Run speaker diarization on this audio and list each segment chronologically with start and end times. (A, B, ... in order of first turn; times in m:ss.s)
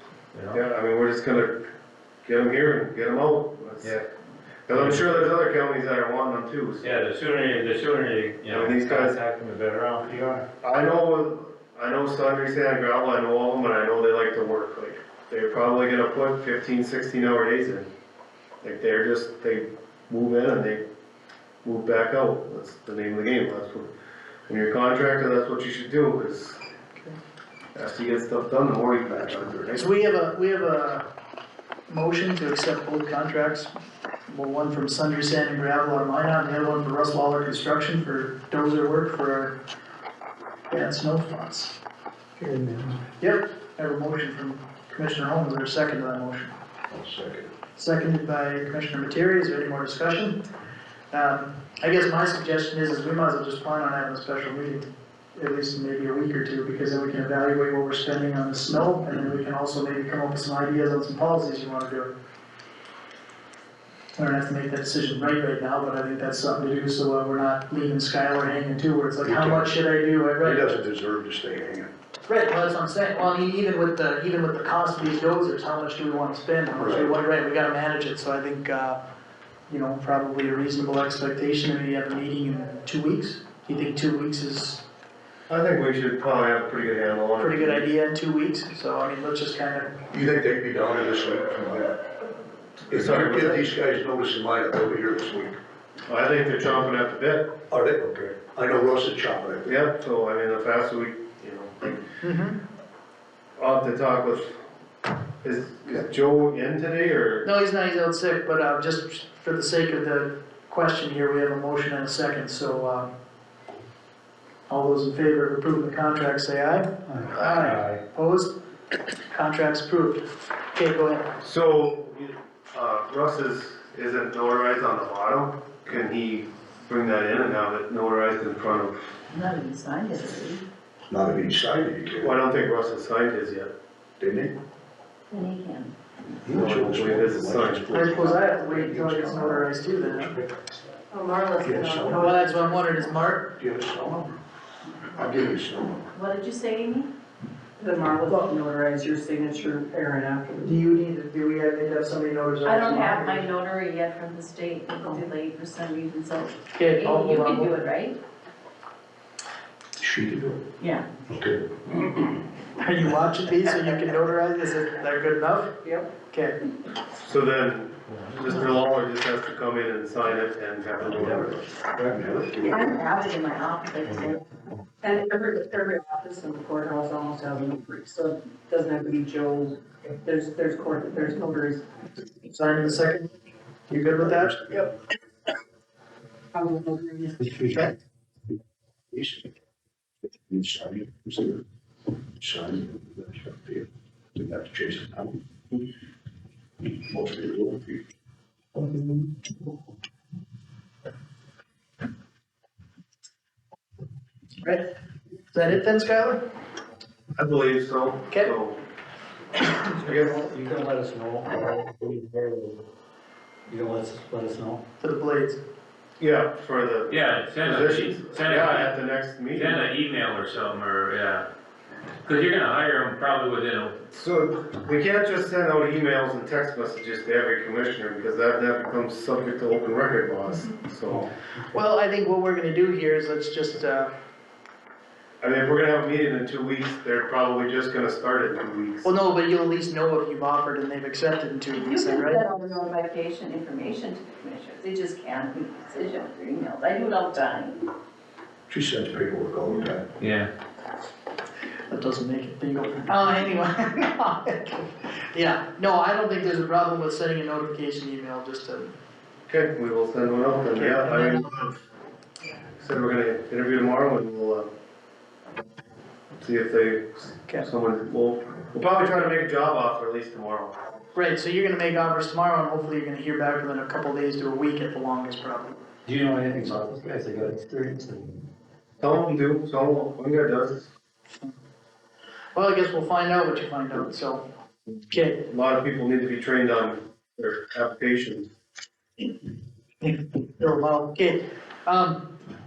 0:00.3-0:00.6 A
0:00.5-0:01.6 B
0:02.2-0:04.0 B
0:03.8-0:04.0 A
0:04.7-0:07.0 B
0:04.7-0:05.0 A
0:06.8-0:10.4 A
0:08.4-0:09.2 B
0:10.6-0:17.9 B
0:18.6-0:20.8 B
0:21.6-0:23.9 B
0:24.5-0:26.6 B
0:27.7-0:29.8 B
0:29.7-0:31.0 C
0:31.9-0:33.7 C
0:34.3-0:39.5 C
0:40.7-0:41.7 C
0:42.4-0:43.0 D
0:43.2-0:46.5 C
0:46.9-0:47.5 E
0:47.8-0:50.4 C
0:51.1-1:02.1 C
1:04.2-1:10.6 C
1:09.2-1:09.7 E
1:10.4-1:11.9 E
1:12.3-1:19.0 C
1:16.8-1:17.2 E
1:19.7-1:24.8 C
1:25.5-1:27.7 B
1:27.4-1:30.0 C
1:30.1-1:32.0 E
1:32.9-1:35.6 E
1:32.9-1:33.6 B
1:36.1-1:37.5 B
1:37.7-1:39.7 E
1:39.6-1:42.0 B
1:42.2-1:42.6 C
1:43.6-1:44.6 B
1:45.4-1:47.4 B
1:47.4-1:53.1 C
1:54.7-1:58.5 C
1:57.5-1:58.0 A
1:59.3-2:01.2 C
2:01.4-2:09.1 B
2:09.3-2:10.6 F
2:11.1-2:12.4 E
2:12.2-2:13.7 B
2:14.2-2:14.5 E
2:15.3-2:15.9 F
2:16.4-2:20.8 E
2:16.5-2:17.9 B
2:17.9-2:20.3 C
2:21.1-2:23.0 G
2:21.6-2:22.4 E
2:22.1-2:23.4 C
2:23.6-2:24.4 E
2:25.1-2:26.0 E
2:26.1-2:27.1 F
2:27.8-2:30.8 G
2:30.6-2:33.5 C
2:32.6-2:38.2 F
2:36.7-2:37.8 C
2:40.0-2:40.6 E
2:40.8-2:41.0 F
2:41.3-2:41.7 E
2:42.8-2:46.6 C
2:45.8-2:46.1 G
2:47.2-2:51.5 B
2:51.0-2:52.8 E
2:52.6-2:54.4 F
2:55.0-3:01.8 G
3:02.5-3:03.3 C
3:03.9-3:04.6 C
3:04.2-3:04.9 E
3:06.5-3:07.4 G
3:07.4-3:07.8 D
3:09.1-3:09.5 E
3:10.5-3:11.6 E
3:12.4-3:15.4 E
3:16.9-3:18.0 E
3:25.5-3:26.4 C
3:27.4-3:28.8 B
3:29.9-3:32.8 D
3:30.0-3:30.4 B
3:33.7-3:34.8 D
3:35.0-3:35.6 C
3:36.2-3:39.8 B
3:37.1-3:41.4 A
3:42.2-3:44.0 A
3:44.1-3:51.3 B
3:51.7-3:54.1 C
3:55.4-3:59.1 B
3:59.0-4:02.4 C
4:01.7-4:07.8 F
4:08.7-4:10.0 E
4:10.2-4:10.5 A
4:11.9-4:18.9 C
4:19.5-4:21.7 B
4:20.7-4:21.5 C
4:22.8-4:24.7 B
4:26.4-4:30.7 B
4:31.1-4:35.7 C
4:36.0-4:38.5 D
4:39.0-4:40.9 B
4:42.5-4:44.4 C
4:45.1-4:45.4 C
4:45.5-4:48.5 B
4:50.0-4:52.2 C